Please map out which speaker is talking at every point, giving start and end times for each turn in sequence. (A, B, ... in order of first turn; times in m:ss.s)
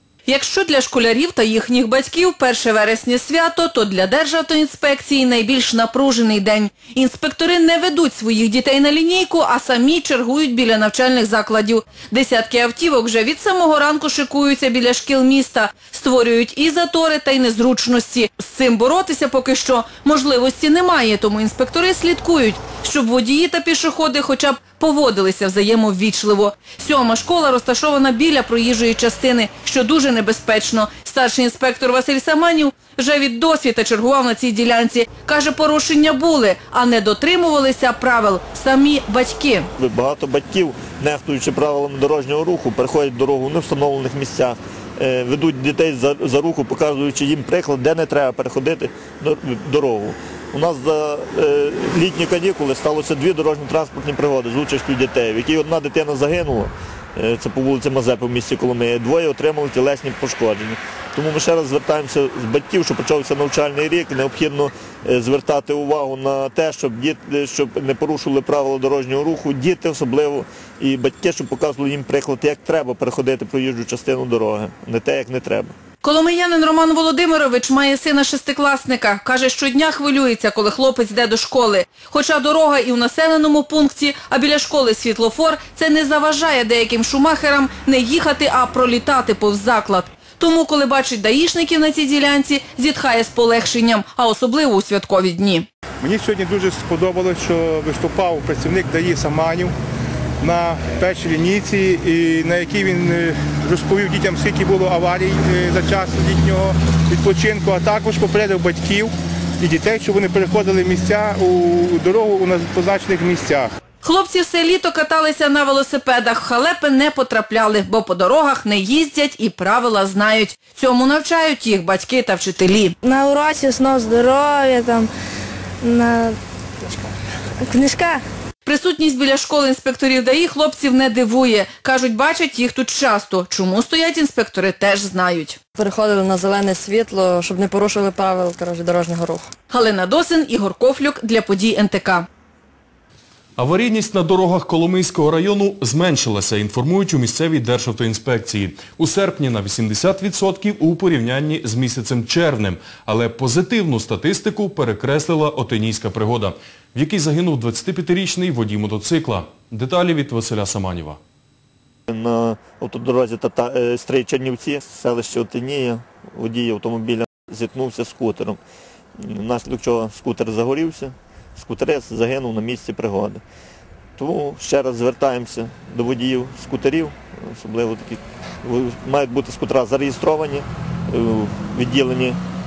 0:00.2-0:39.7 A
0:39.8-1:15.7 B
1:16.0-1:35.7 A
1:36.0-1:39.7 C
1:40.4-1:53.7 C
1:54.0-2:02.9 A
2:03.0-2:05.1 D
2:05.8-2:06.4 D
2:07.6-2:08.2 D
2:08.6-2:15.6 A
2:15.8-2:19.5 E
2:19.7-2:22.3 A
2:23.6-2:41.2 F
2:42.1-2:48.6 B
2:49.2-2:53.4 B
2:54.2-3:02.4 B